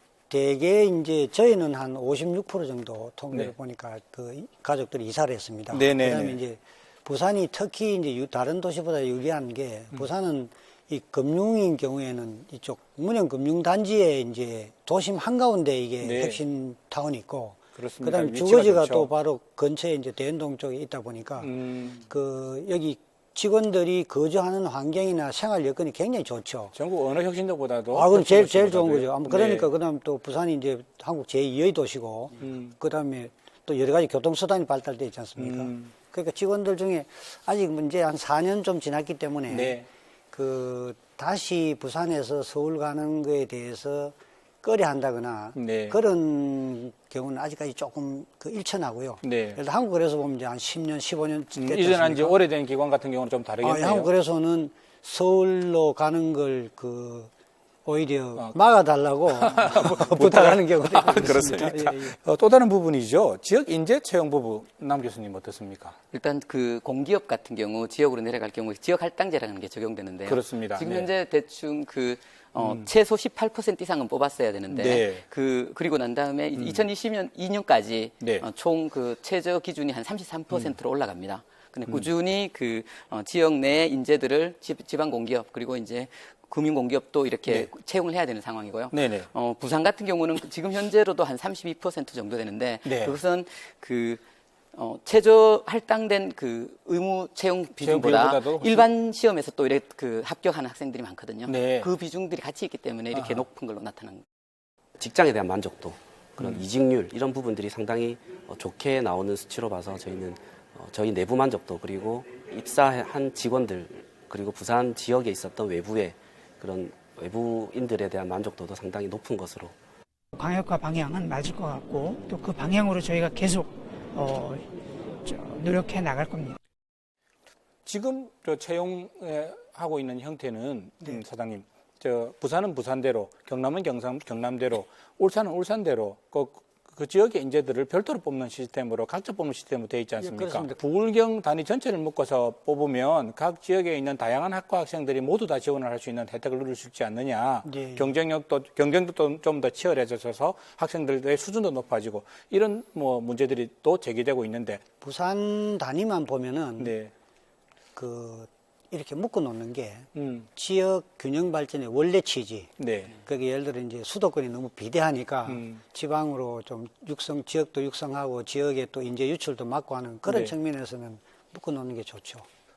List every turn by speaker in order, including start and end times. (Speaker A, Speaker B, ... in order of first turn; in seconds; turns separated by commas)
Speaker A: 0.3-26.7, Speaker B: 5.7-6.4, Speaker B: 16.0-16.4, Speaker B: 17.8-19.1, Speaker B: 21.4-22.0, Speaker B: 26.7-29.7, Speaker A: 27.9-39.8, Speaker B: 32.4-32.8, Speaker B: 35.4-35.9, Speaker B: 39.5-39.9, Speaker A: 40.3-52.4, Speaker B: 45.5-46.0, Speaker B: 49.2-49.6, Speaker B: 51.5-54.1, Speaker A: 53.6-57.3, Speaker A: 57.9-62.1, Speaker B: 59.3-66.0, Speaker C: 66.1-94.2, Speaker B: 70.2-71.1, Speaker B: 72.6-72.9, Speaker B: 74.7-75.2, Speaker B: 76.6-76.8, Speaker B: 78.2-78.5, Speaker B: 81.9-82.1, Speaker B: 88.9-89.3, Speaker B: 92.8-93.2, Speaker C: 94.7-104.2, Speaker B: 97.8-98.9, Speaker B: 101.5-101.9, Speaker B: 103.1-103.4, Speaker D: 105.0-119.8, Speaker B: 106.4-106.7, Speaker E: 120.4-124.7, Speaker E: 125.2-126.6, Speaker B: 127.8-154.8, Speaker A: 140.2-140.8, Speaker A: 147.7-148.1, Speaker A: 155.0-156.9, Speaker B: 156.8-157.1, Speaker A: 158.0-172.5, Speaker B: 160.1-160.5, Speaker B: 162.8-163.2, Speaker B: 165.5-165.8, Speaker B: 170.2-170.6